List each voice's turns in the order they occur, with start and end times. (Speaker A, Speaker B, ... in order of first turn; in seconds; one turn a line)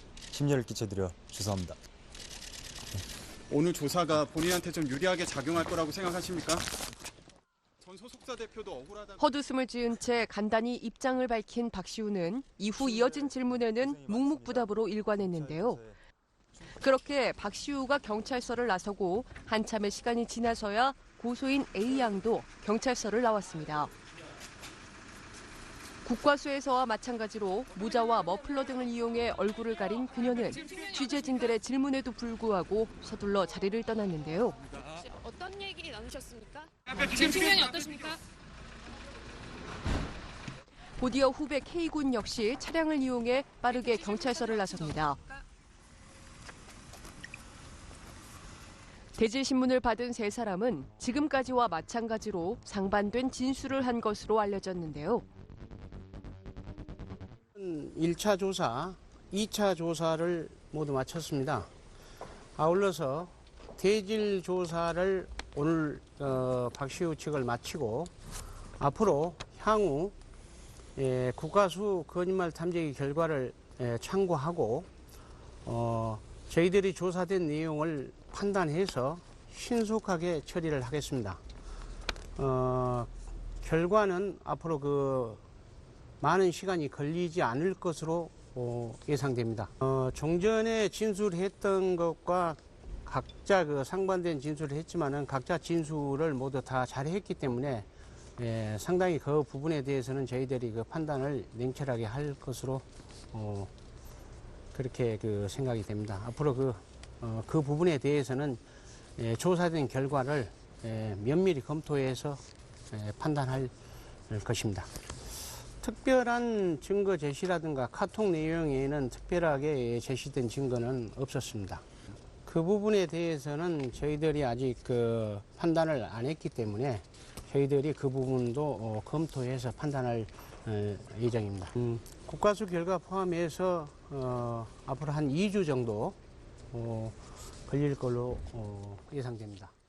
Speaker A: 0.3-1.8
Speaker B: 3.5-6.7
Speaker B: 7.8-9.2
Speaker C: 9.2-15.8
Speaker A: 13.0-16.0
Speaker C: 16.7-23.9
Speaker C: 26.1-34.6
Speaker D: 34.9-38.2
Speaker C: 41.0-45.3
Speaker C: 49.1-55.3
Speaker E: 57.6-61.7
Speaker E: 62.6-68.1
Speaker E: 68.8-70.1
Speaker E: 71.0-74.9
Speaker E: 75.7-81.4
Speaker E: 82.4-83.1
Speaker E: 83.6-85.4
Speaker E: 86.2-103.7
Speaker E: 104.7-108.6
Speaker E: 109.2-113.7
Speaker E: 114.3-114.9
Speaker E: 115.8-121.8
Speaker E: 122.5-136.2
Speaker E: 136.7-139.7